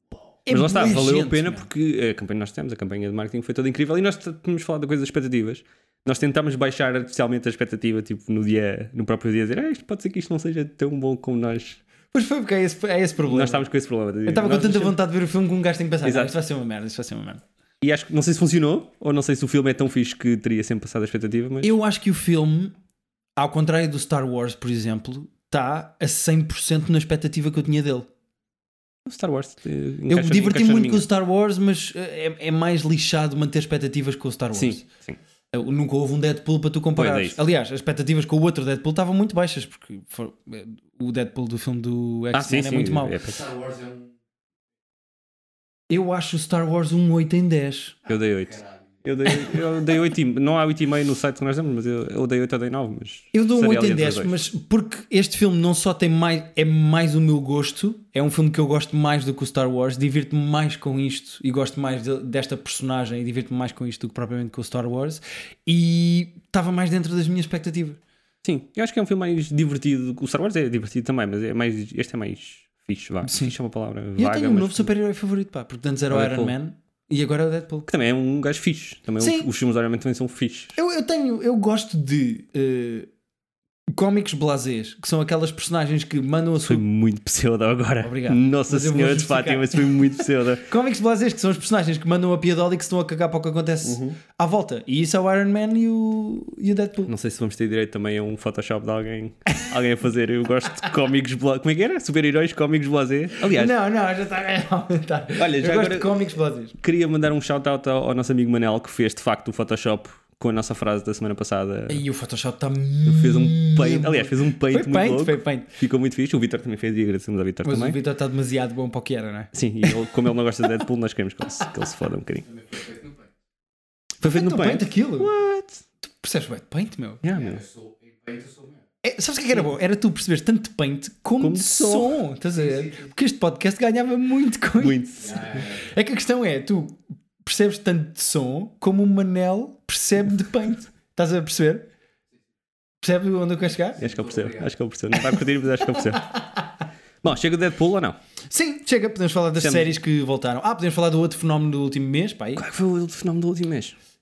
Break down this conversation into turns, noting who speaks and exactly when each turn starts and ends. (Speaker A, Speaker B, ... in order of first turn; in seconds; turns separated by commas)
Speaker A: 0.5-1.7, Speaker B: 0.5-11.8, Speaker A: 12.1-13.7, Speaker B: 13.3-15.0, Speaker A: 14.2-17.4, Speaker B: 16.0-16.3, Speaker B: 17.8-21.8, Speaker A: 21.6-22.7, Speaker A: 23.4-28.1, Speaker B: 29.0-31.1, Speaker A: 30.1-34.8, Speaker B: 34.5-35.2, Speaker A: 35.5-43.2, Speaker B: 37.0-37.4, Speaker B: 42.3-43.4, Speaker C: 43.3-44.1, Speaker A: 45.9-48.0, Speaker B: 48.0-54.4, Speaker C: 48.1-49.4, Speaker A: 53.3-68.0, Speaker B: 68.4-74.9, Speaker A: 73.2-73.5, Speaker A: 74.2-77.9, Speaker B: 76.1-76.6, Speaker B: 77.9-80.8, Speaker A: 79.2-79.5, Speaker A: 80.8-83.1, Speaker A: 83.9-86.8, Speaker B: 86.6-90.7, Speaker A: 88.0-97.1, Speaker B: 93.8-94.2, Speaker B: 97.0-103.8, Speaker A: 103.4-106.8, Speaker B: 105.4-112.0, Speaker A: 111.9-115.7, Speaker B: 113.0-118.0, Speaker A: 117.6-120.7, Speaker B: 119.5-122.5, Speaker C: 122.4-123.3, Speaker A: 124.2-125.3, Speaker B: 124.2-125.8, Speaker A: 126.0-127.2, Speaker B: 127.2-127.6, Speaker C: 127.2-128.8, Speaker A: 129.0-141.9, Speaker B: 131.4-132.2, Speaker C: 132.5-133.1, Speaker B: 134.8-135.6, Speaker C: 135.2-135.9, Speaker A: 143.0-144.0, Speaker C: 144.0-144.7, Speaker B: 144.0-146.3, Speaker A: 145.1-146.7, Speaker B: 147.2-148.2, Speaker A: 148.5-152.6, Speaker B: 149.6-149.9, Speaker B: 152.6-153.9